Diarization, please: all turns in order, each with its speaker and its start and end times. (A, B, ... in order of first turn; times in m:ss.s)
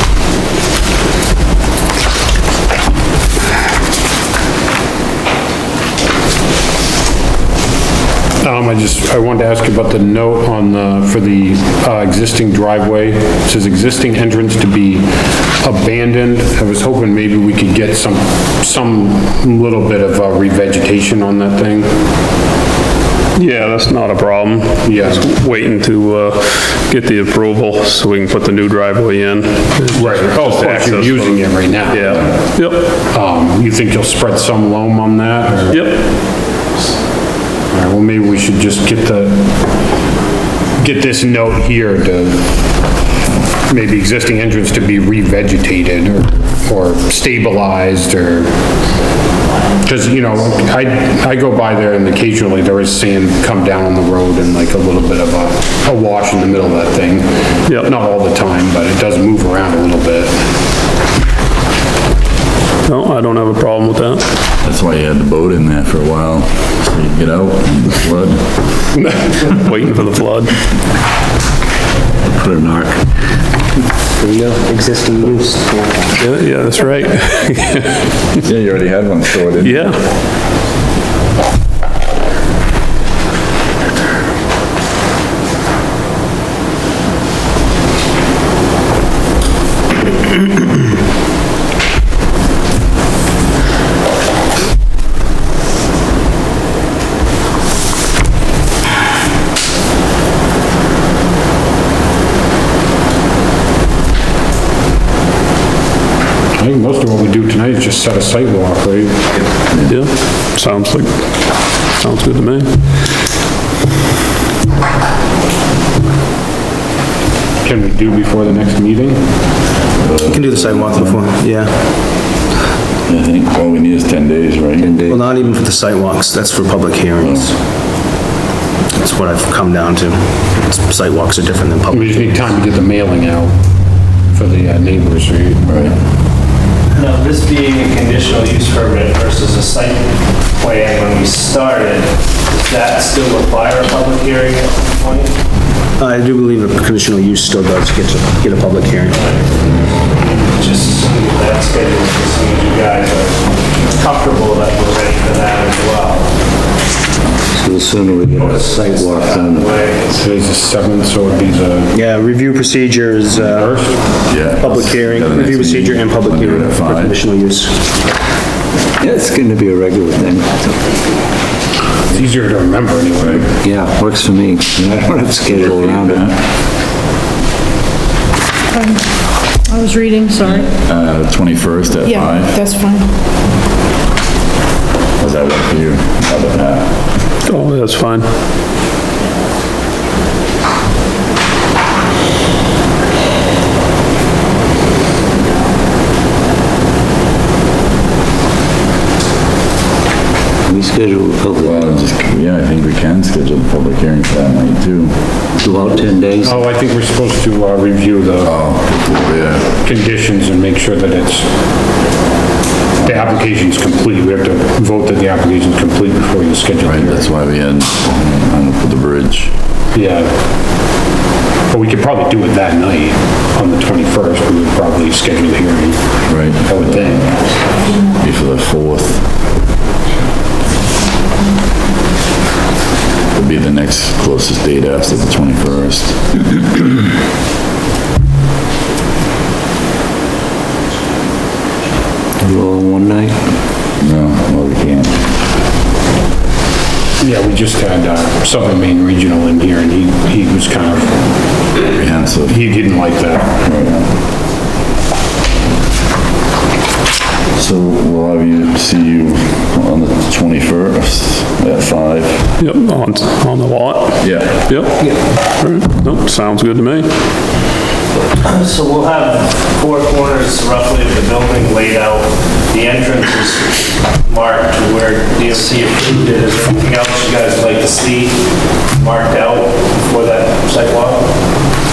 0:08.4-0:22.0 A
0:23.4-0:31.4 B
0:24.8-0:25.3 A
0:29.9-0:32.4 A
0:31.9-0:32.9 B
0:33.0-0:35.8 A
0:35.7-0:36.0 B
0:37.7-0:39.5 A
0:40.8-0:42.6 A
0:43.6-0:48.5 A
0:49.8-1:00.5 A
1:02.8-1:04.2 B
1:04.6-1:08.8 C
1:09.4-1:10.6 B
1:12.3-1:13.1 D
1:14.2-1:14.6 D
1:14.6-1:16.1 E
1:16.2-1:18.0 B
1:18.4-1:20.0 C
1:19.6-1:20.0 B
1:46.6-1:49.4 A
1:49.8-1:52.7 B
1:57.6-1:59.4 A
2:00.0-2:01.2 C
2:00.3-2:02.0 E
2:03.0-2:04.9 C
2:04.8-2:05.2 D
2:05.1-2:07.5 E
2:07.2-2:07.5 C
2:08.9-2:12.3 E
2:11.9-2:13.6 A
2:14.3-2:16.0 A
2:15.6-2:15.9 C
2:16.9-2:22.1 F
2:22.6-2:25.3 F
2:26.0-2:29.2 E
2:29.1-2:36.3 F
2:37.5-2:39.7 D
2:38.3-2:40.2 F
2:40.2-2:42.0 A
2:41.9-2:44.0 E
2:43.3-2:44.0 A
2:44.2-2:47.2 C
2:44.6-2:47.9 E
2:49.0-2:50.9 D
2:52.1-2:53.6 A
2:53.2-2:53.4 C
2:53.6-2:56.3 D
2:55.5-2:56.4 C
2:58.7-3:00.6 G
3:00.4-3:02.7 C
3:02.1-3:03.1 G
3:05.2-3:07.1 C
3:07.4-3:08.3 B
3:20.6-3:22.0 D
3:21.6-3:25.2 C
3:25.6-3:26.6 D
3:26.4-3:28.6 A
3:28.4-3:29.7 C
3:29.8-3:31.6 A
3:33.0-3:33.4 C
3:33.0-3:37.3 A
3:36.8-3:39.5 C
3:39.9-3:40.4 A
3:41.7-3:47.5 A
3:46.3-3:47.3 C
3:48.0-3:49.3 C
3:53.3-3:56.6 C
4:02.4-4:03.5 D
4:04.0-4:05.2 C
4:07.2-4:11.2 A
4:11.8-4:12.6 C
4:12.4-4:13.6 A
4:13.6-4:14.1 C
4:17.5-4:22.5 C
4:22.6-4:27.1 B
4:24.2-4:24.8 C
4:28.3-4:38.4 F
4:38.9-4:41.3 F